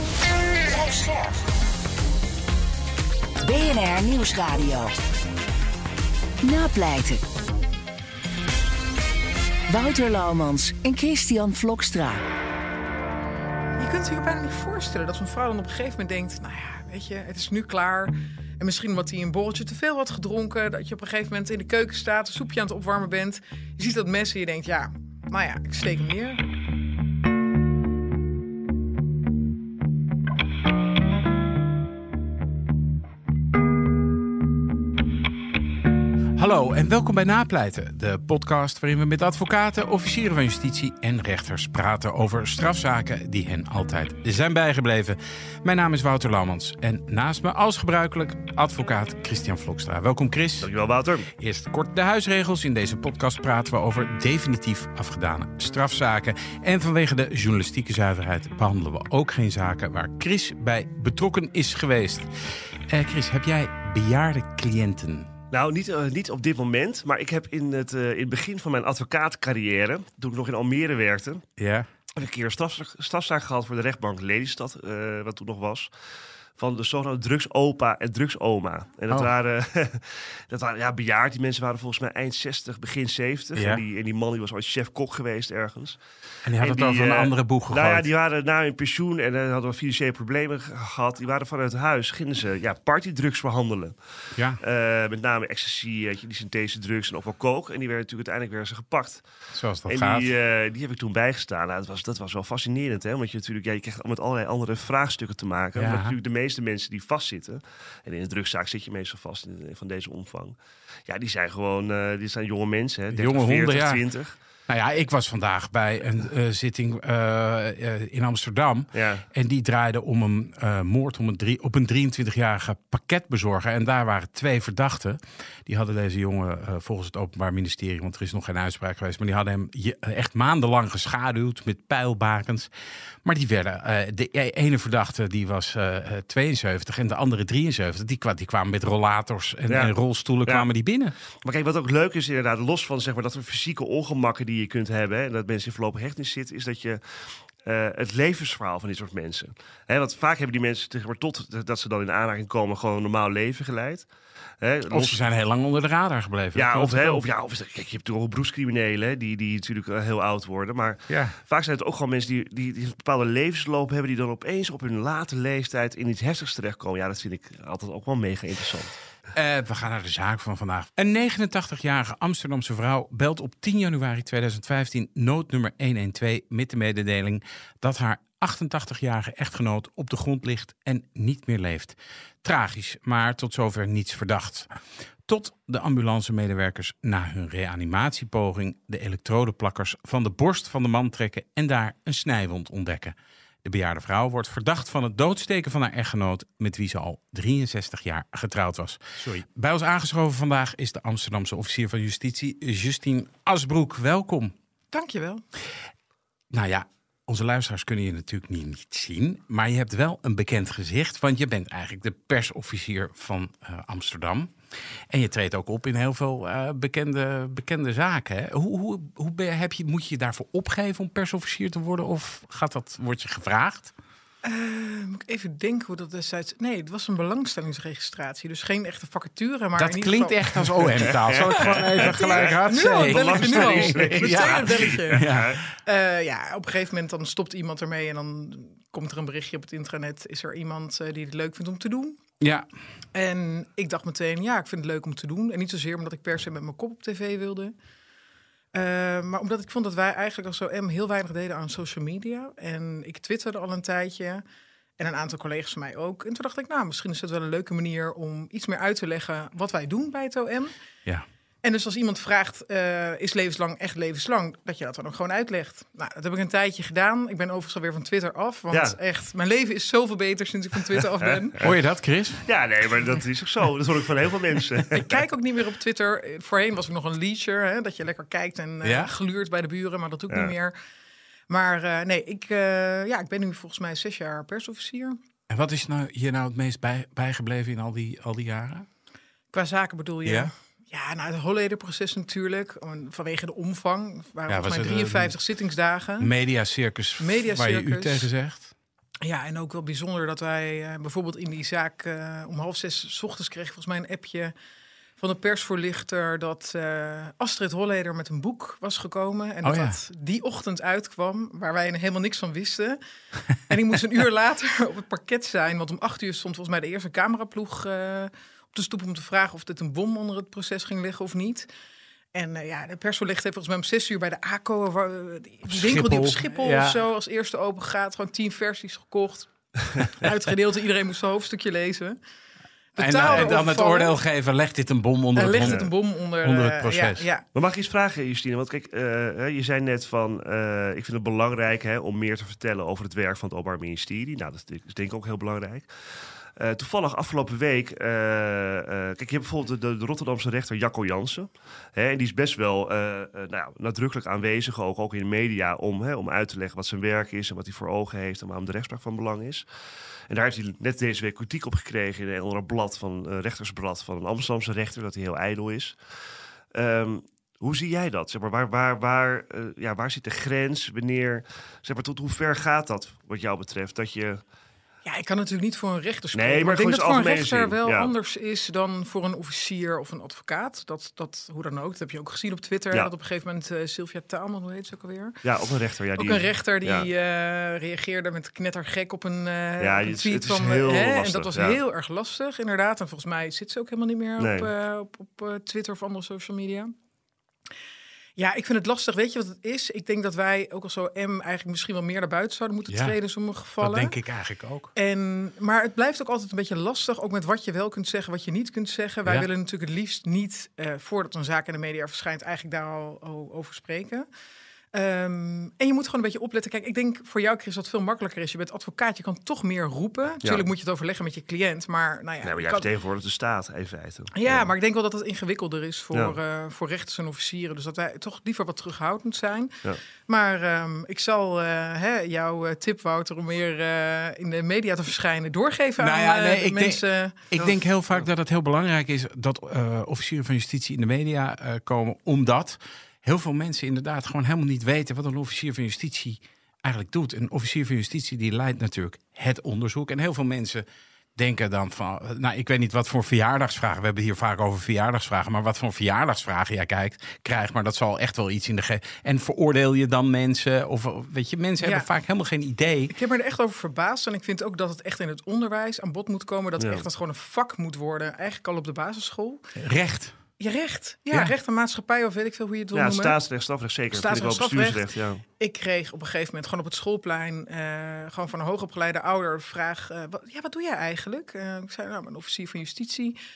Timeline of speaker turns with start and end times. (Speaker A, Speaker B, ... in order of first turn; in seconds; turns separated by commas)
Speaker A: 0.7-1.4, Speaker A: 3.4-4.9, Speaker A: 6.4-7.2, Speaker A: 9.7-12.2, Speaker B: 13.8-26.4, Speaker C: 36.3-50.7, Speaker D: 50.6-51.3, Speaker C: 51.4-62.3, Speaker C: 62.9-65.3, Speaker D: 65.5-71.4, Speaker C: 71.6-71.9, Speaker D: 72.2-75.9, Speaker D: 76.6-86.0, Speaker C: 83.5-83.8, Speaker C: 86.4-88.0, Speaker D: 86.6-99.2, Speaker C: 94.3-94.6, Speaker C: 99.5-100.3, Speaker D: 99.9-114.3, Speaker C: 105.7-106.2, Speaker C: 113.1-114.0, Speaker C: 114.7-132.7, Speaker D: 118.9-119.2, Speaker C: 133.2-141.1, Speaker D: 139.7-139.9, Speaker D: 141.4-154.1, Speaker D: 154.6-155.2, Speaker C: 154.9-157.2, Speaker D: 156.5-169.0, Speaker C: 161.1-161.3, Speaker C: 169.3-184.7, Speaker C: 185.2-204.5, Speaker B: 204.9-205.4, Speaker C: 206.5-214.5, Speaker C: 215.1-223.9, Speaker B: 224.4-242.2, Speaker C: 229.8-235.6, Speaker D: 231.2-235.6, Speaker C: 242.4-242.7, Speaker B: 243.1-247.7, Speaker B: 248.7-254.4, Speaker B: 255.0-260.7, Speaker B: 261.6-271.6, Speaker D: 268.7-268.9, Speaker D: 271.2-271.7, Speaker C: 271.6-272.4, Speaker D: 272.4-275.2, Speaker B: 274.9-280.7, Speaker C: 278.8-279.1, Speaker B: 281.5-285.2, Speaker C: 285.5-288.9, Speaker B: 289.5-296.3, Speaker C: 290.2-290.5, Speaker C: 294.5-295.3, Speaker C: 296.2-298.7, Speaker B: 297.2-298.3, Speaker B: 299.2-304.5, Speaker B: 305.2-313.0, Speaker C: 309.6-309.9, Speaker B: 313.5-321.7, Speaker B: 322.3-332.2, Speaker C: 325.7-327.0, Speaker B: 332.9-334.2, Speaker C: 333.0-335.9, Speaker D: 333.2-333.5, Speaker B: 335.4-337.4, Speaker D: 335.6-335.9, Speaker C: 336.4-337.2, Speaker D: 337.5-359.6, Speaker D: 360.3-366.0, Speaker D: 366.7-374.4, Speaker B: 375.0-385.4, Speaker D: 376.3-378.1, Speaker D: 385.4-387.1, Speaker B: 386.2-396.9, Speaker D: 389.8-391.8, Speaker D: 394.4-394.7, Speaker B: 398.4-404.2, Speaker C: 402.9-403.1, Speaker C: 403.8-404.9, Speaker B: 404.9-414.3, Speaker B: 414.9-422.9, Speaker D: 422.4-424.7, Speaker B: 424.3-437.4, Speaker C: 436.0-450.8, Speaker D: 437.6-438.3, Speaker C: 451.4-463.1, Speaker B: 461.8-462.1, Speaker B: 463.1-469.6, Speaker D: 466.8-467.0, Speaker C: 469.8-470.4, Speaker B: 470.6-473.4, Speaker D: 472.9-475.4, Speaker B: 474.1-483.4